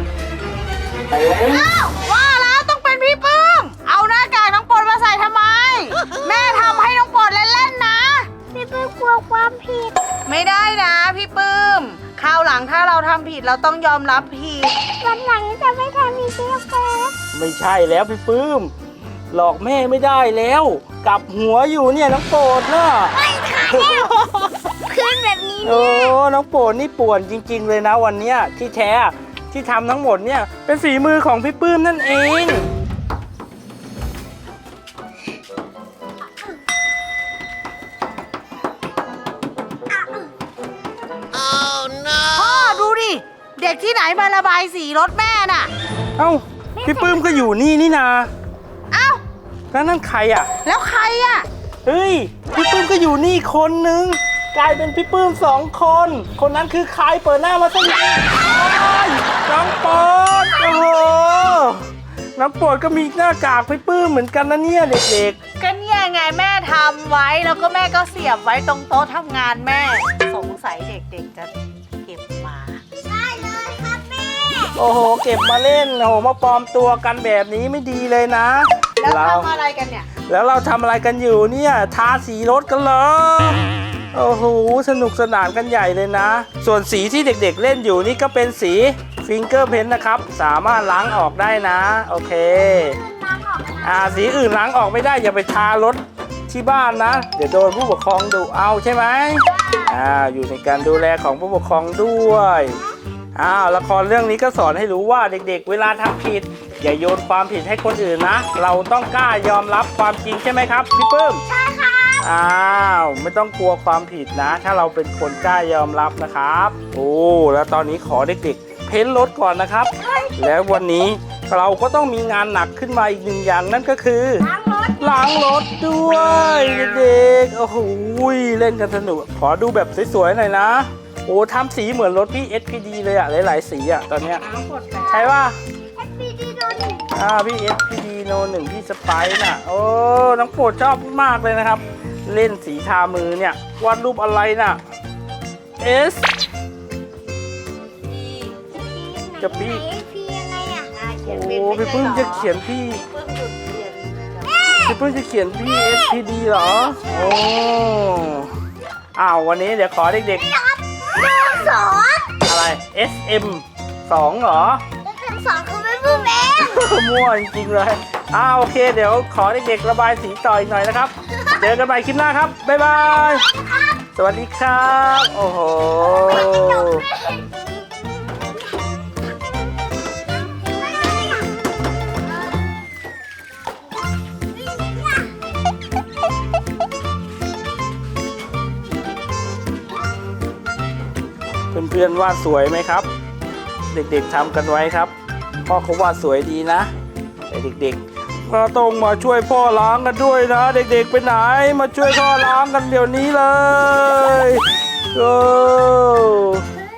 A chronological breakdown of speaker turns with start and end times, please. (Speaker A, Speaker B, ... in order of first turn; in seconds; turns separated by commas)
Speaker A: 1.2-8.3, Speaker B: 8.5-9.9, Speaker A: 10.2-14.8, Speaker B: 15.0-17.1, Speaker C: 17.3-18.7, Speaker C: 19.3-23.1, Speaker B: 23.1-26.1, Speaker C: 23.7-24.1, Speaker C: 25.6-32.7, Speaker A: 42.2-45.7, Speaker C: 46.2-48.3, Speaker B: 46.8-47.3, Speaker A: 48.9-49.2, Speaker C: 49.7-50.5, Speaker A: 50.6-51.5, Speaker C: 51.9-65.4, Speaker A: 65.6-72.8, Speaker B: 73.0-74.8, Speaker C: 74.8-79.5, Speaker A: 79.0-80.1, Speaker C: 80.3-83.6, Speaker C: 84.1-93.0, Speaker B: 92.6-94.3, Speaker C: 93.8-102.8, Speaker B: 99.4-100.0, Speaker C: 103.3-111.4, Speaker B: 111.5-112.3, Speaker C: 112.2-124.5, Speaker B: 120.0-120.4, Speaker B: 124.4-125.2, Speaker C: 125.0-134.4, Speaker A: 134.5-135.1, Speaker B: 134.5-135.3, Speaker C: 135.1-135.6, Speaker B: 136.0-137.1, Speaker C: 137.1-144.8, Speaker C: 145.8-146.3, Speaker A: 148.2-148.5, Speaker B: 148.7-150.9, Speaker C: 149.4-149.8, Speaker A: 150.9-154.7, Speaker C: 151.2-153.0, Speaker B: 154.4-155.0, Speaker C: 154.8-158.5, Speaker B: 155.5-157.7, Speaker C: 159.2-160.4, Speaker B: 160.3-162.3, Speaker C: 162.4-164.8, Speaker B: 165.0-166.9, Speaker C: 166.6-173.4, Speaker C: 174.2-177.0, Speaker B: 176.1-177.5, Speaker B: 180.5-181.5, Speaker B: 184.8-185.0, Speaker C: 191.7-193.1, Speaker C: 193.9-195.1, Speaker C: 195.7-196.9, Speaker C: 197.5-206.7